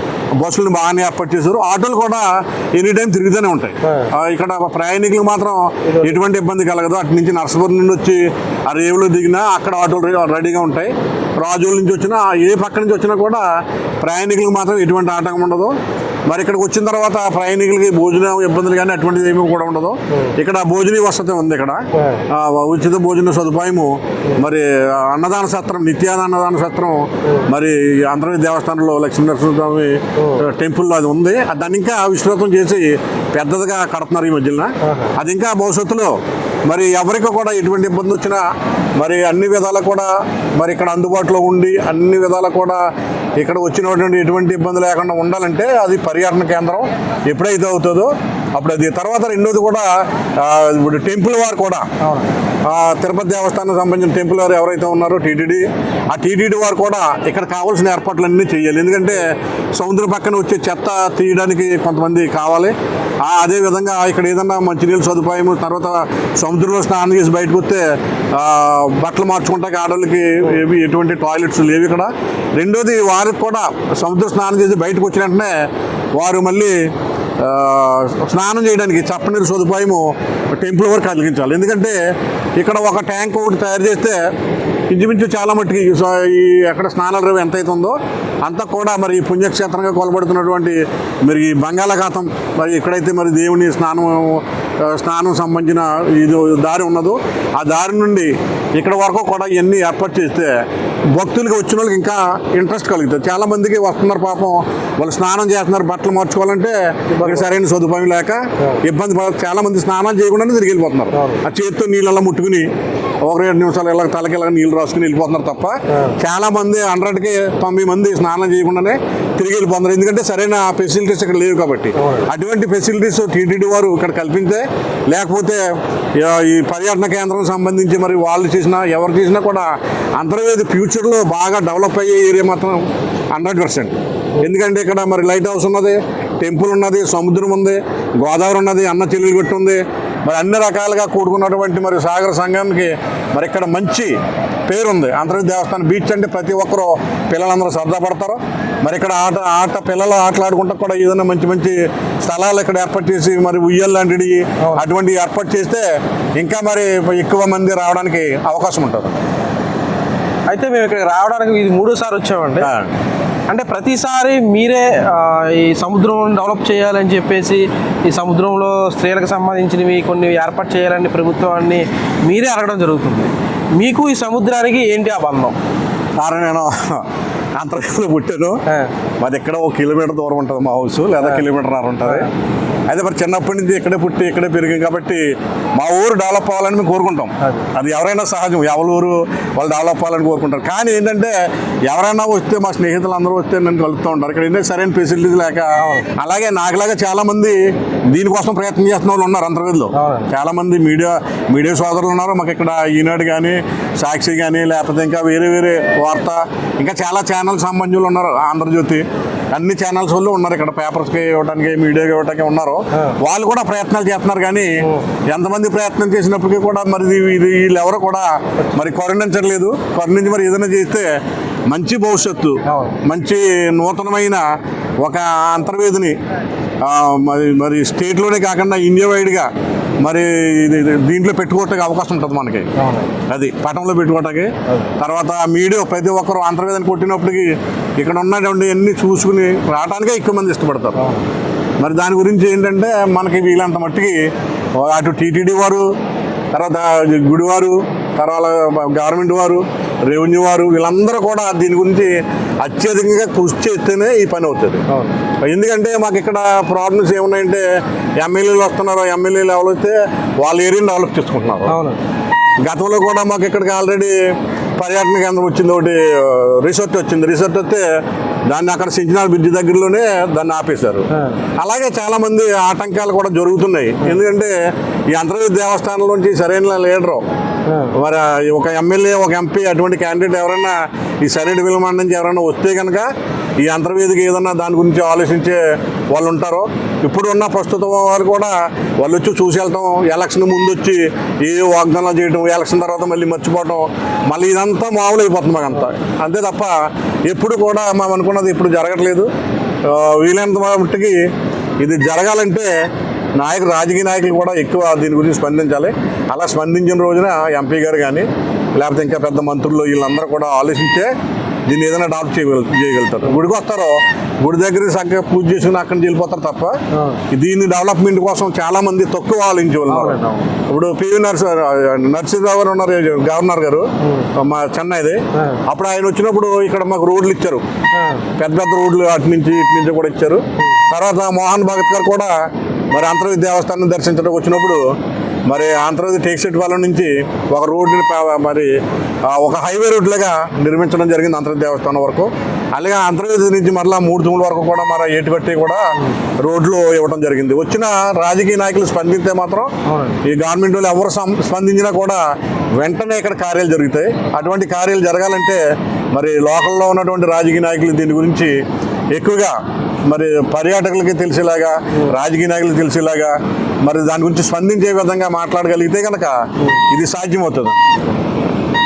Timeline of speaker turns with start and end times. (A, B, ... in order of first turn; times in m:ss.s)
0:00.4-0:13.4 A
0:03.8-0:04.1 B
0:05.9-0:06.2 B
0:14.0-0:15.8 A
0:16.3-0:36.2 A
0:21.9-0:22.3 B
0:30.2-0:30.4 B
0:34.8-0:35.2 B
0:36.7-0:38.4 A
0:39.0-0:42.8 A
0:43.4-0:51.9 A
0:52.0-0:52.3 B
0:52.6-1:15.6 A
1:16.2-1:16.8 A
1:17.4-1:22.0 A
1:22.6-1:24.2 A
1:24.9-1:40.6 A
1:41.1-1:52.7 A
1:47.1-1:47.5 B
1:51.1-1:51.4 B
1:53.2-2:05.6 A
2:02.0-2:02.3 B
2:06.2-2:24.2 A
2:24.7-2:35.8 A
2:34.6-2:34.9 B
2:36.4-2:39.2 A
2:40.5-2:42.7 B
2:42.6-2:42.9 A
2:43.5-2:55.6 B
2:56.2-2:58.6 A
2:59.2-3:02.3 A
3:02.9-3:05.2 A
3:05.8-3:34.7 A
3:07.4-3:07.7 B
3:15.8-3:16.1 B
3:19.9-3:20.3 B
3:35.3-3:41.1 A
3:41.7-3:44.5 A
3:42.7-3:43.0 B
3:45.0-3:46.2 A
3:46.8-3:52.7 A
3:52.8-3:53.1 B
3:53.3-4:01.0 A
4:01.0-4:01.2 B
4:01.8-4:05.9 A
4:06.5-4:14.8 A
4:14.9-4:15.2 B
4:15.4-4:17.6 A
4:18.2-4:21.8 A
4:21.7-4:22.0 B
4:22.6-4:24.2 A
4:24.8-4:27.8 A
4:28.5-4:34.5 A
4:31.1-4:31.4 B
4:35.1-4:37.2 A
4:37.7-4:37.9 B
4:37.9-4:56.8 A
4:57.3-4:59.3 A
4:59.8-5:01.2 A
5:01.8-5:02.7 A
5:03.4-5:11.1 A
5:11.7-5:16.8 A
5:16.9-5:17.2 B
5:17.3-5:27.6 A
5:19.9-5:20.5 B
5:25.4-5:25.6 B
5:28.0-5:28.3 B
5:28.4-5:32.3 A
5:32.9-5:34.8 A
5:35.5-5:38.7 A
5:39.2-5:49.7 A
5:49.9-5:50.2 B
5:50.2-5:52.2 A
5:52.8-5:58.6 A
5:59.1-6:07.8 A